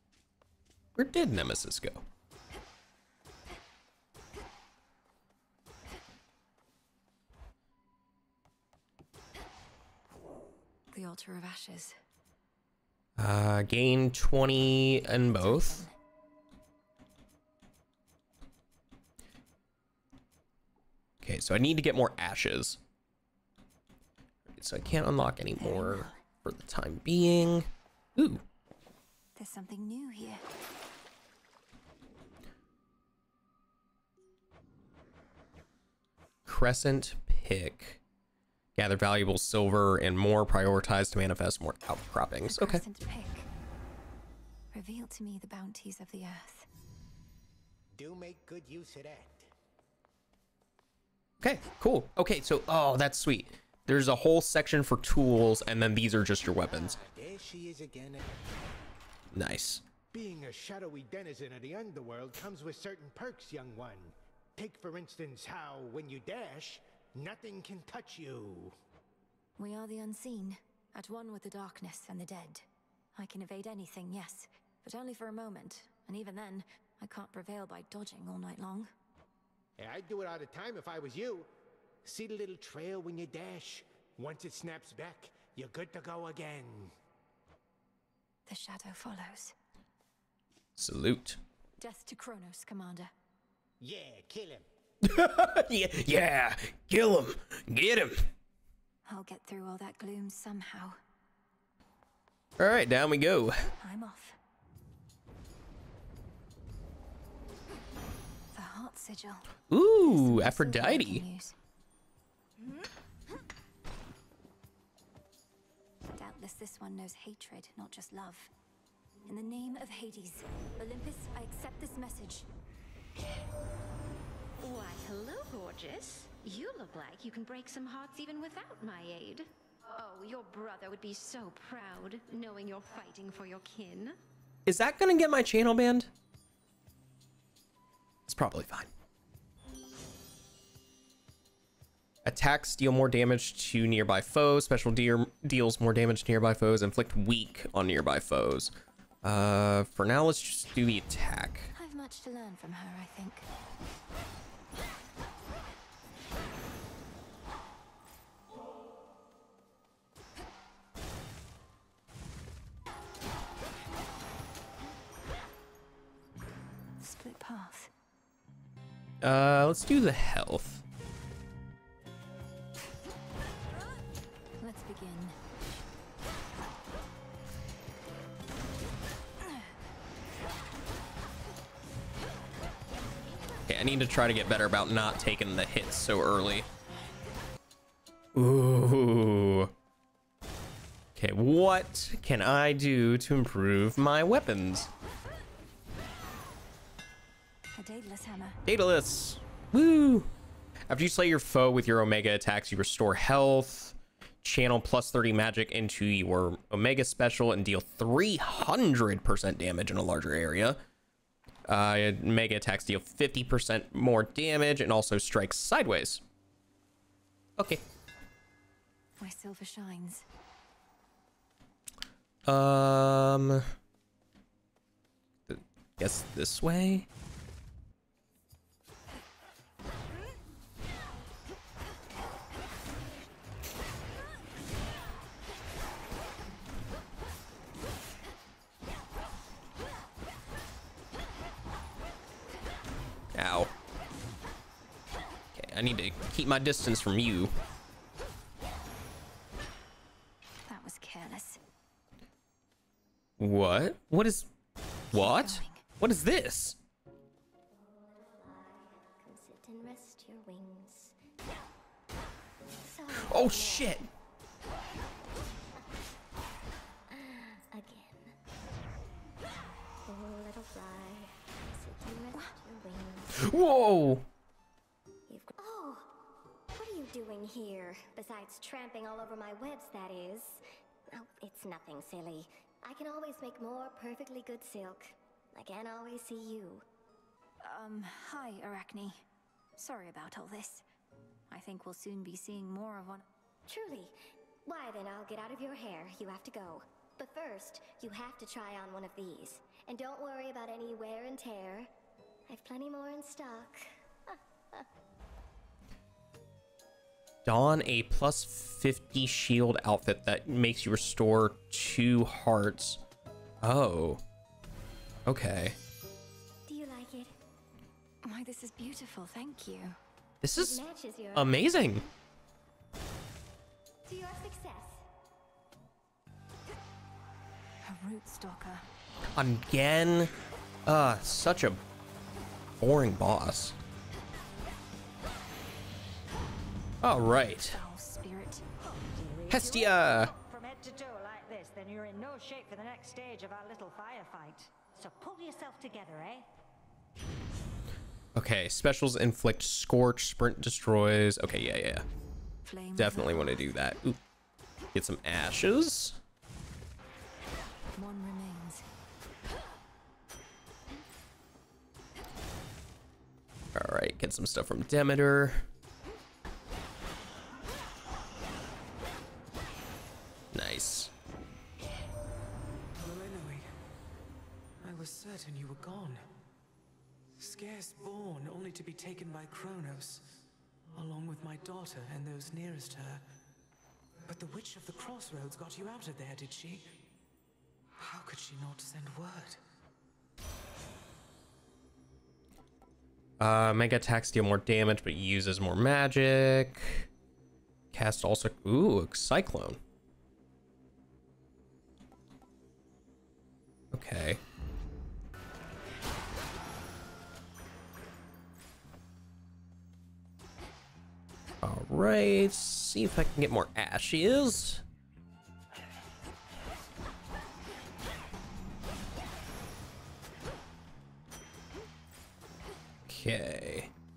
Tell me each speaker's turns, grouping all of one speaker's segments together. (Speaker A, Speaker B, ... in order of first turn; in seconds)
Speaker A: 1.0-2.0, 13.2-15.8, 21.2-22.8, 24.6-28.4, 36.5-38.0, 38.8-42.8, 51.4-57.0, 59.3-59.8, 90.8-91.4, 95.0-98.3, 102.6-103.7, 109.7-111.2, 134.7-136.1, 138.3-138.9, 142.2-151.7, 169.2-170.8, 183.7-186.7, 188.3-189.7, 191.2-194.9, 198.7-200.3, 200.9-210.8, 211.7-216.2, 217.6-217.8, 222.5-223.7, 225.5-227.1, 243.3-243.7, 245.6-247.5, 253.4-254.5, 255.1-256.8, 263.1-264.1, 273.4-274.2, 307.4-313.0, 313.6-314.2, 315.3-315.8, 320.4-320.8, 321.4-322.1, 329.4-330.3, 330.9-331.8, 332.8-333.8, 337.0-337.8, 339.5-340.3, 348.4-352.1, 353.0-354.2, 354.9-356.2, 363.8-365.7, 370.5-371.1, 393.4-397.1, 397.9-399.8, 403.9-404.4, 411.6-414.8, 423.1-423.9
Speaker B: 10.9-12.0, 15.2-15.9, 25.6-26.2, 29.4-30.4, 42.5-43.5, 44.7-46.7, 69.6-78.9, 88.5-89.5, 91.8-93.1, 99.1-101.0, 103.8-104.4, 108.5-111.6, 116.2-118.5, 119.3-122.5, 151.8-153.5, 167.0-167.9, 174.6-175.4, 179.4-179.7, 197.8-198.6, 219.2-220.2, 250.7-251.6, 255.1-255.8, 287.6-289.2, 289.8-290.9, 291.5-293.2, 318.2-320.0, 327.8-328.9, 337.6-338.7, 352.6-353.6, 358.0-358.9
Speaker C: 48.0-49.5, 56.5-58.6, 60.1-68.8, 79.8-81.5, 82.0-86.9, 93.8-94.7
Speaker D: 124.6-134.2
Speaker E: 257.8-261.1, 262.8-263.9, 267.1-268.3, 270.1-273.6, 275.3-276.1, 276.7-286.9, 293.7-294.1, 294.7-301.9, 302.5-304.9, 316.7-317.4, 320.5-322.1, 324.1-325.1
Speaker F: 338.8-346.5
Speaker G: 372.9-373.7, 374.8-376.3, 377.4-380.4, 380.9-383.2, 384.3-387.0, 388.0-389.6